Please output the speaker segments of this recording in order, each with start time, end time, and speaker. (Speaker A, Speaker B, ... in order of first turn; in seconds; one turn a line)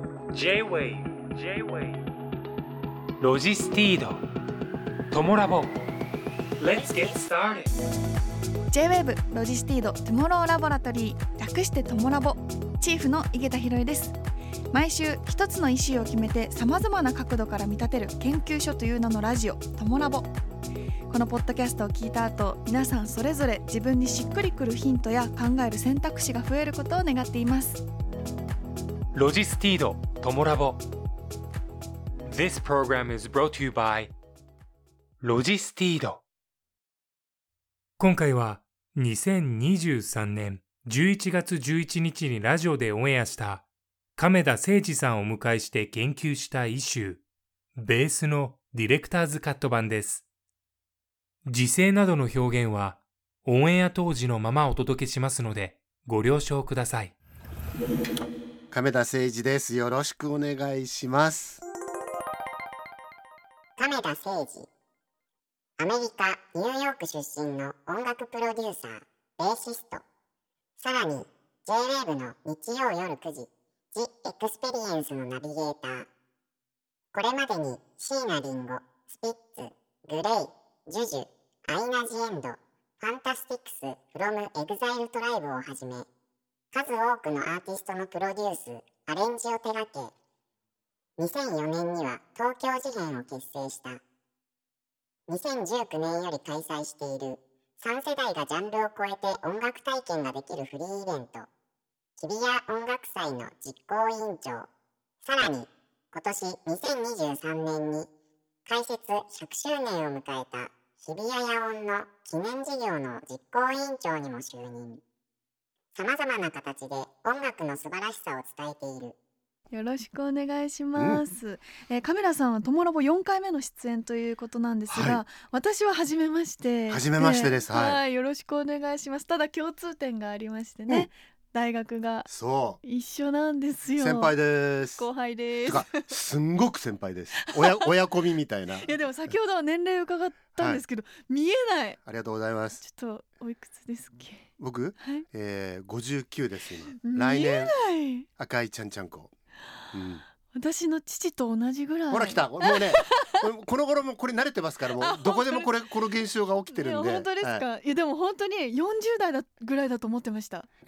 Speaker A: 0.3-2.0
Speaker A: 3.2-4.2
Speaker A: 5.1-5.8
Speaker A: 6.6-7.7
Speaker B: 8.7-14.2
Speaker B: 14.7-20.3
Speaker B: 21.1-27.8
Speaker A: 29.1-30.8
Speaker A: 32.3-34.1
Speaker A: 35.2-36.2
Speaker A: 38.0-43.6
Speaker A: 44.2-47.2
Speaker A: 47.8-50.3
Speaker A: 51.5-57.2
Speaker C: 58.7-61.6
Speaker D: 63.8-64.7
Speaker D: 65.8-70.0
Speaker D: 70.8-76.1
Speaker D: 77.1-86.1
Speaker D: 86.7-90.1
Speaker D: 91.2-94.0
Speaker D: 95.3-101.5
Speaker D: 102.2-104.7
Speaker D: 105.2-108.1
Speaker D: 108.7-115.0
Speaker D: 116.0-119.2
Speaker B: 119.7-132.3
Speaker C: 121.0-121.2
Speaker C: 124.9-125.2
Speaker C: 126.9-128.0
Speaker C: 132.3-132.8
Speaker B: 132.8-134.3
Speaker C: 134.0-135.1
Speaker B: 134.9-136.1
Speaker C: 135.7-139.3
Speaker B: 138.8-142.0
Speaker C: 140.6-140.8
Speaker C: 142.0-142.8
Speaker B: 142.8-144.5
Speaker C: 144.6-147.8
Speaker B: 145.0-145.2
Speaker B: 147.0-148.3
Speaker C: 148.4-149.3
Speaker C: 149.9-150.2
Speaker B: 150.5-153.3
Speaker C: 152.1-157.7
Speaker B: 155.0-155.7
Speaker B: 156.7-160.7